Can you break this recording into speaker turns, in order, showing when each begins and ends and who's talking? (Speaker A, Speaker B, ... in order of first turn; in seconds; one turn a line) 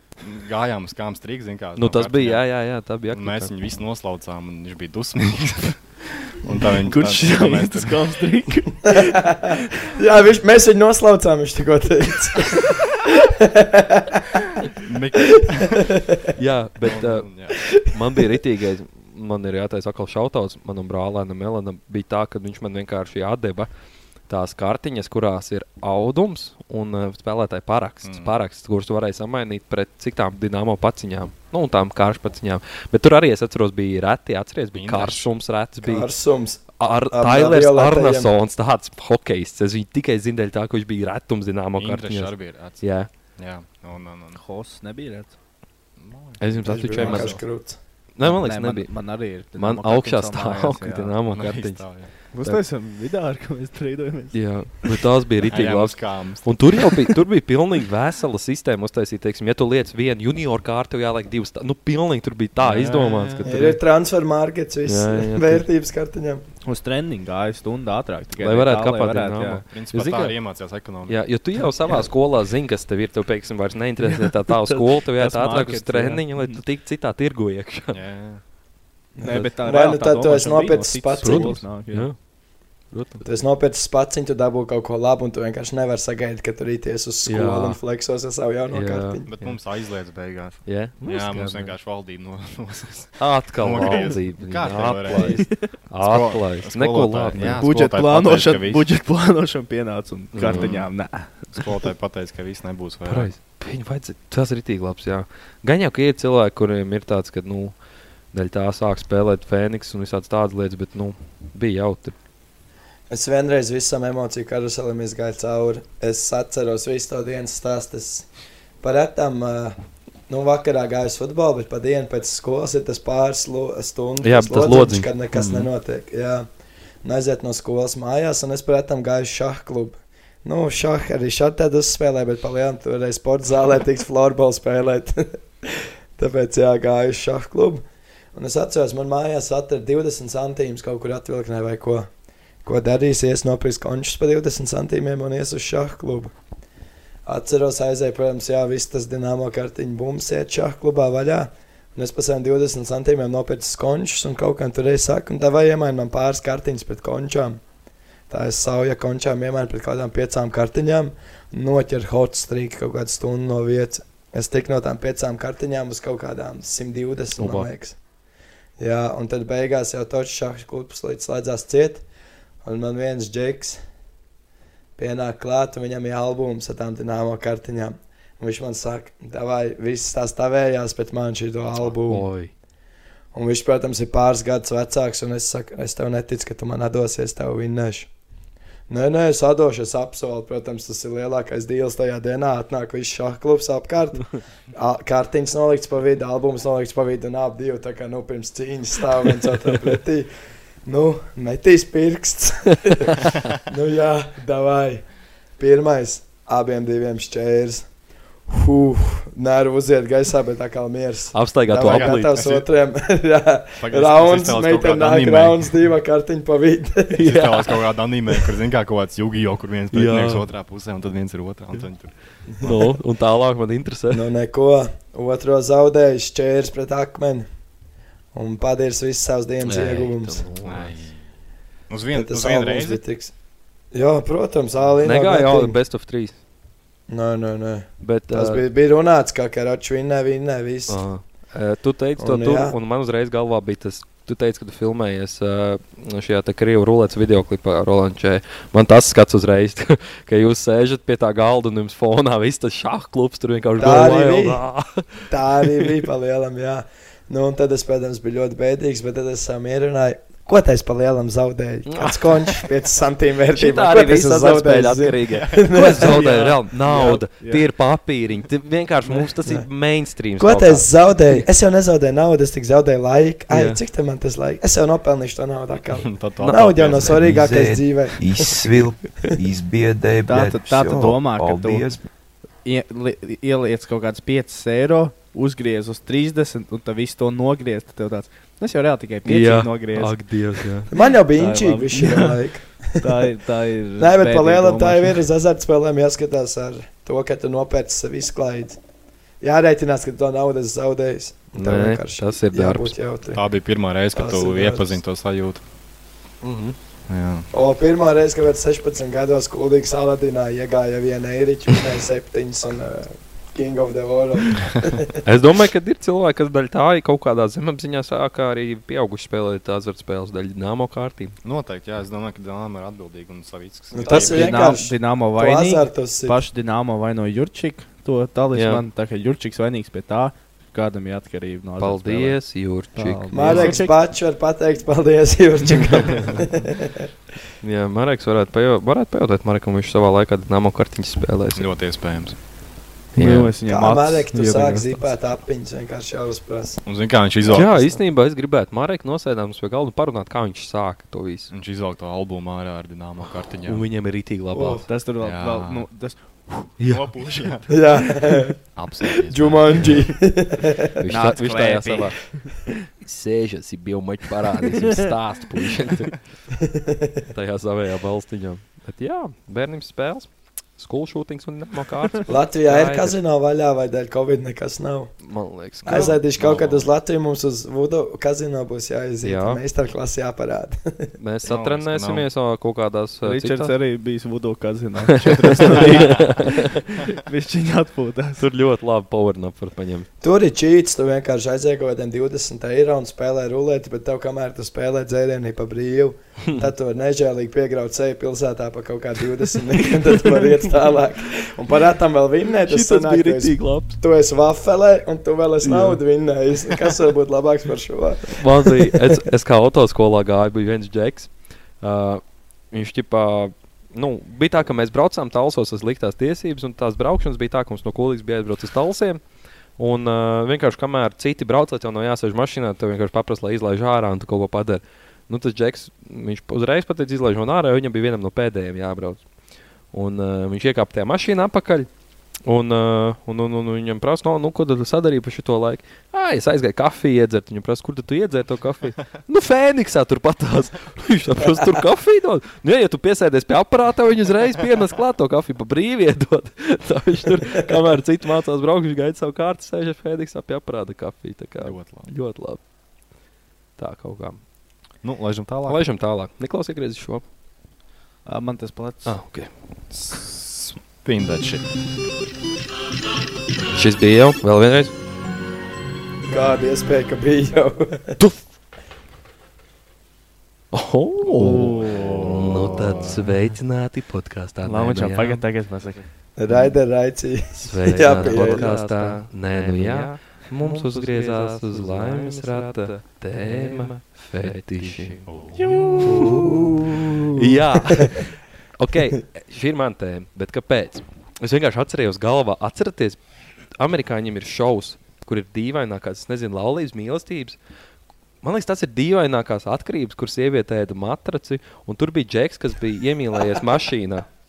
Speaker A: 0.2-2.5
Speaker B: 1.8-3.5
Speaker A: 3.1-8.0
Speaker C: 6.8-9.9
Speaker D: 8.9-14.5
Speaker A: 14.8-15.9
Speaker D: 15.4-16.2
Speaker B: 16.4-17.3
Speaker A: 16.8-17.7
Speaker B: 17.9-23.7
Speaker B: 24.3-36.1
Speaker A: 28.0-28.3
Speaker A: 34.7-35.3
Speaker D: 35.8-38.3
Speaker B: 36.8-43.1
Speaker A: 41.8-42.8
Speaker A: 43.4-44.4
Speaker C: 44.3-45.3
Speaker A: 46.0-47.1
Speaker B: 46.4-47.4
Speaker D: 46.6-47.8
Speaker C: 47.0-47.3
Speaker B: 48.1-48.9
Speaker C: 48.2-51.1
Speaker B: 49.5-51.9
Speaker A: 51.3-52.1
Speaker C: 52.3-54.9
Speaker B: 54.3-63.8
Speaker A: 55.5-56.6
Speaker A: 62.6-63.6
Speaker D: 63.4-66.4
Speaker B: 64.8-65.7
Speaker C: 66.6-69.6
Speaker B: 68.4-70.4
Speaker A: 69.7-71.2
Speaker B: 71.1-78.0
Speaker C: 74.1-76.6
Speaker A: 77.9-78.4
Speaker D: 79.1-81.6
Speaker C: 79.2-82.1
Speaker B: 79.2-79.5
Speaker B: 81.2-82.2
Speaker B: 82.9-83.2
Speaker D: 83.2-89.3
Speaker B: 87.2-87.8
Speaker B: 88.7-89.6
Speaker A: 89.3-98.8
Speaker B: 90.6-91.8
Speaker B: 93.2-97.7
Speaker C: 93.8-94.1
Speaker C: 95.1-95.6
Speaker C: 97.4-101.8
Speaker B: 100.3-100.7
Speaker A: 100.4-100.9
Speaker A: 101.5-103.3
Speaker B: 103.0-107.7
Speaker B: 108.3-112.1
Speaker D: 113.1-118.3
Speaker D: 118.8-119.8
Speaker D: 120.3-126.5
Speaker B: 124.2-125.7
Speaker D: 127.0-142.1
Speaker D: 142.6-146.3
Speaker D: 147.2-157.6
Speaker D: 158.3-168.0
Speaker B: 167.3-167.7
Speaker D: 168.8-172.0
Speaker D: 172.6-173.8
Speaker D: 175.0-182.3
Speaker B: 182.1-182.5
Speaker D: 183.3-188.1
Speaker D: 188.9-200.3
Speaker D: 200.8-205.1
Speaker D: 205.6-207.9
Speaker D: 208.5-217.4
Speaker B: 211.3-212.4
Speaker A: 211.8-212.6
Speaker A: 213.8-215.7
Speaker B: 217.1-217.8
Speaker A: 217.2-222.9
Speaker B: 219.9-220.4
Speaker B: 222.6-224.3
Speaker D: 224.1-227.4
Speaker D: 228.3-230.5
Speaker B: 229.6-231.0
Speaker A: 230.6-231.2
Speaker A: 231.9-233.0
Speaker D: 232.1-233.3
Speaker D: 233.9-235.8
Speaker B: 235.0-236.3
Speaker D: 237.1-241.0
Speaker B: 238.0-238.6
Speaker B: 240.9-255.9
Speaker D: 242.2-242.8
Speaker D: 253.8-254.6
Speaker D: 255.3-267.3
Speaker B: 261.9-262.6
Speaker B: 263.5-271.4
Speaker C: 266.1-267.6
Speaker D: 269.1-269.7
Speaker D: 270.4-278.5
Speaker B: 273.5-273.8
Speaker A: 276.0-277.2
Speaker B: 276.4-277.1
Speaker E: 277.1-282.0
Speaker C: 280.2-281.9
Speaker C: 282.6-292.4
Speaker B: 289.2-290.9
Speaker D: 290.9-293.3
Speaker C: 292.9-295.2
Speaker D: 294.0-298.8
Speaker D: 299.4-303.4
Speaker B: 301.5-302.9
Speaker A: 303.3-305.6
Speaker D: 304.1-305.0
Speaker B: 306.4-306.7
Speaker A: 307.1-307.5
Speaker D: 307.5-315.2
Speaker B: 315.2-321.3
Speaker A: 321.4-324.8
Speaker D: 323.9-326.4
Speaker C: 324.1-333.9
Speaker B: 328.5-328.8
Speaker B: 331.8-333.7
Speaker D: 333.3-337.1
Speaker A: 336.1-336.4
Speaker B: 337.6-341.7
Speaker A: 341.6-342.4
Speaker B: 343.1-343.5
Speaker C: 343.1-344.9
Speaker D: 343.6-346.8
Speaker A: 346.8-347.9
Speaker B: 347.5-351.5
Speaker D: 347.5-347.9
Speaker A: 351.5-353.8
Speaker B: 353.7-354.8
Speaker D: 354.5-354.9
Speaker C: 354.9-356.7
Speaker A: 355.2-355.9
Speaker B: 356.8-357.1
Speaker A: 356.8-358.0
Speaker D: 357.7-360.9
Speaker A: 358.7-360.1
Speaker B: 361.0-362.4
Speaker C: 361.1-362.6
Speaker B: 363.0-366.2
Speaker D: 366.6-367.2
Speaker B: 367.3-373.2
Speaker D: 372.2-375.2
Speaker B: 375.2-376.2
Speaker D: 375.8-381.1
Speaker A: 375.8-376.9
Speaker B: 379.2-379.6
Speaker B: 381.2-383.7
Speaker A: 381.4-382.3
Speaker C: 383.2-388.4
Speaker B: 385.3-386.8
Speaker B: 388.4-390.1
Speaker D: 390.2-409.2
Speaker B: 402.7-404.0
Speaker B: 405.6-406.0
Speaker B: 408.4-419.2
Speaker B: 419.8-429.2
Speaker B: 429.9-431.9
Speaker B: 432.4-452.6
Speaker A: 451.6-452.1
Speaker B: 453.8-454.4
Speaker A: 455.0-455.8
Speaker B: 455.6-457.2
Speaker C: 458.2-459.1
Speaker B: 459.0-459.5
Speaker A: 459.9-461.7
Speaker B: 463.7-464.9
Speaker D: 466.2-468.2
Speaker B: 470.7-475.4
Speaker A: 471.3-473.4
Speaker C: 471.4-472.3
Speaker C: 474.6-476.1
Speaker D: 476.4-478.8
Speaker B: 477.6-485.2
Speaker C: 478.0-486.6
Speaker A: 485.2-486.0
Speaker B: 486.0-493.2
Speaker D: 486.1-488.2
Speaker B: 493.8-497.6
Speaker B: 498.4-504.2